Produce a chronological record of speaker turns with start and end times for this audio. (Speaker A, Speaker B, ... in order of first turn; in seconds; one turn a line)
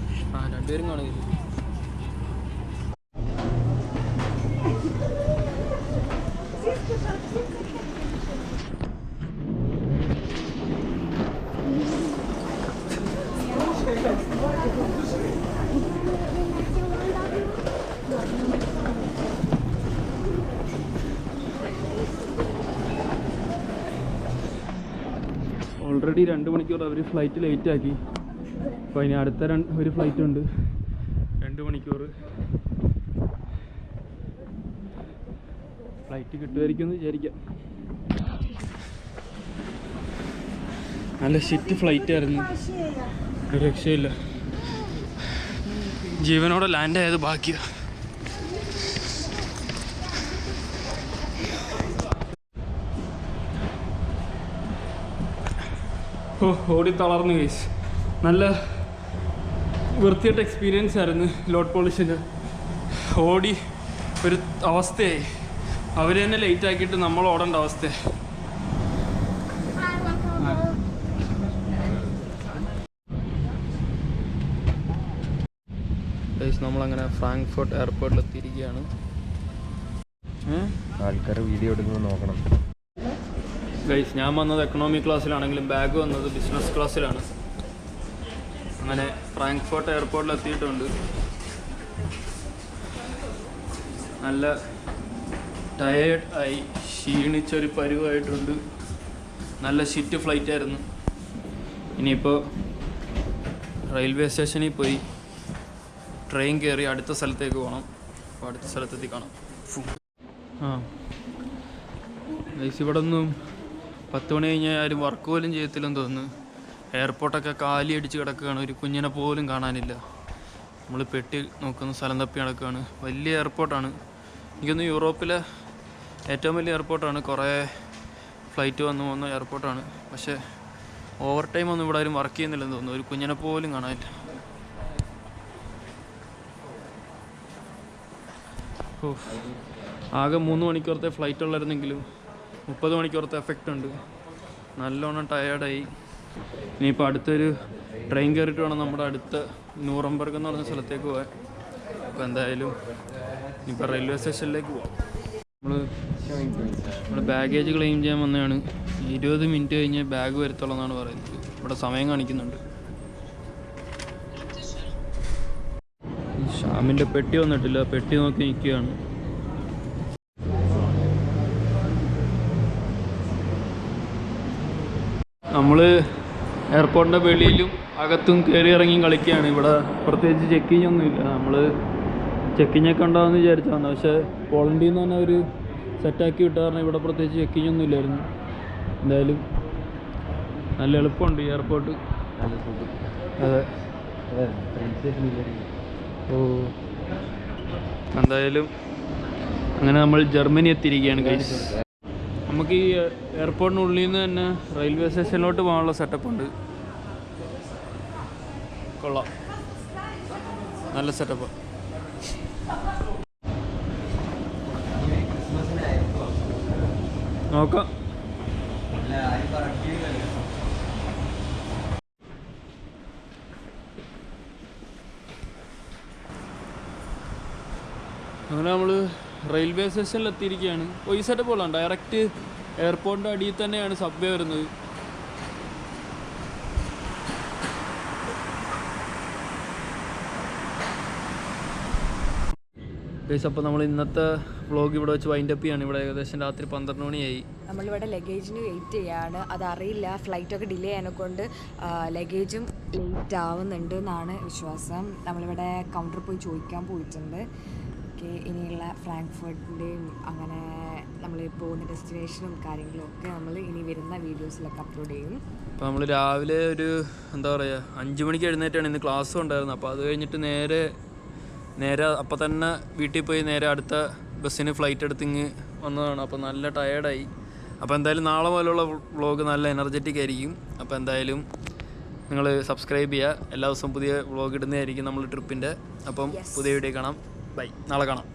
Speaker A: 0.3-1.3
Speaker A: 25.8-28.0
Speaker A: 28.9-30.5
Speaker A: 31.4-32.1
Speaker A: 36.1-37.4
Speaker A: 41.2-42.5
Speaker A: 43.5-44.1
Speaker A: 46.2-47.6
Speaker A: 56.4-57.7
Speaker A: 58.2-58.9
Speaker A: 59.9-62.2
Speaker A: 62.9-63.6
Speaker A: 64.2-65.3
Speaker A: 66.0-68.0
Speaker A: 70.3-70.7
Speaker A: 76.4-78.9
Speaker A: 80.5-80.8
Speaker B: 81.0-82.4
Speaker A: 83.8-87.3
Speaker A: 88.8-90.9
Speaker A: 94.2-94.6
Speaker A: 95.8-98.6
Speaker A: 99.6-100.8
Speaker A: 102.0-102.4
Speaker A: 103.9-105.0
Speaker A: 106.3-107.9
Speaker A: 108.4-110.0
Speaker A: 110.6-110.9
Speaker A: 112.5-113.3
Speaker A: 114.1-116.3
Speaker A: 116.9-120.0
Speaker A: 120.9-124.0
Speaker A: 124.6-125.4
Speaker A: 126.3-127.7
Speaker A: 128.5-130.4
Speaker A: 131.2-134.1
Speaker A: 139.0-139.5
Speaker A: 140.2-142.0
Speaker A: 142.7-144.0
Speaker A: 144.8-145.9
Speaker A: 146.8-151.3
Speaker A: 152.1-152.8
Speaker A: 153.7-154.9
Speaker A: 155.6-155.9
Speaker A: 156.9-162.6
Speaker A: 166.4-169.0
Speaker A: 175.5-175.9
Speaker A: 176.7-181.7
Speaker A: 182.6-185.4
Speaker A: 186.0-188.3
Speaker A: 189.0-189.4
Speaker A: 190.8-192.0
Speaker B: 192.4-192.9
Speaker A: 193.4-193.7
Speaker B: 194.3-195.7
Speaker A: 196.3-196.8
Speaker A: 198.1-198.7
Speaker A: 199.8-201.7
Speaker A: 202.5-206.5
Speaker A: 209.0-209.3
Speaker A: 210.9-211.5
Speaker B: 215.0-216.3
Speaker A: 217.5-217.9
Speaker B: 219.0-220.3
Speaker A: 228.5-232.3
Speaker A: 232.8-234.7
Speaker A: 243.3-247.4
Speaker C: 247.7-257.4
Speaker C: 258.2-265.4
Speaker A: 265.8-270.9
Speaker A: 271.8-277.3
Speaker A: 277.8-281.5
Speaker A: 282.3-288.3
Speaker C: 286.3-286.8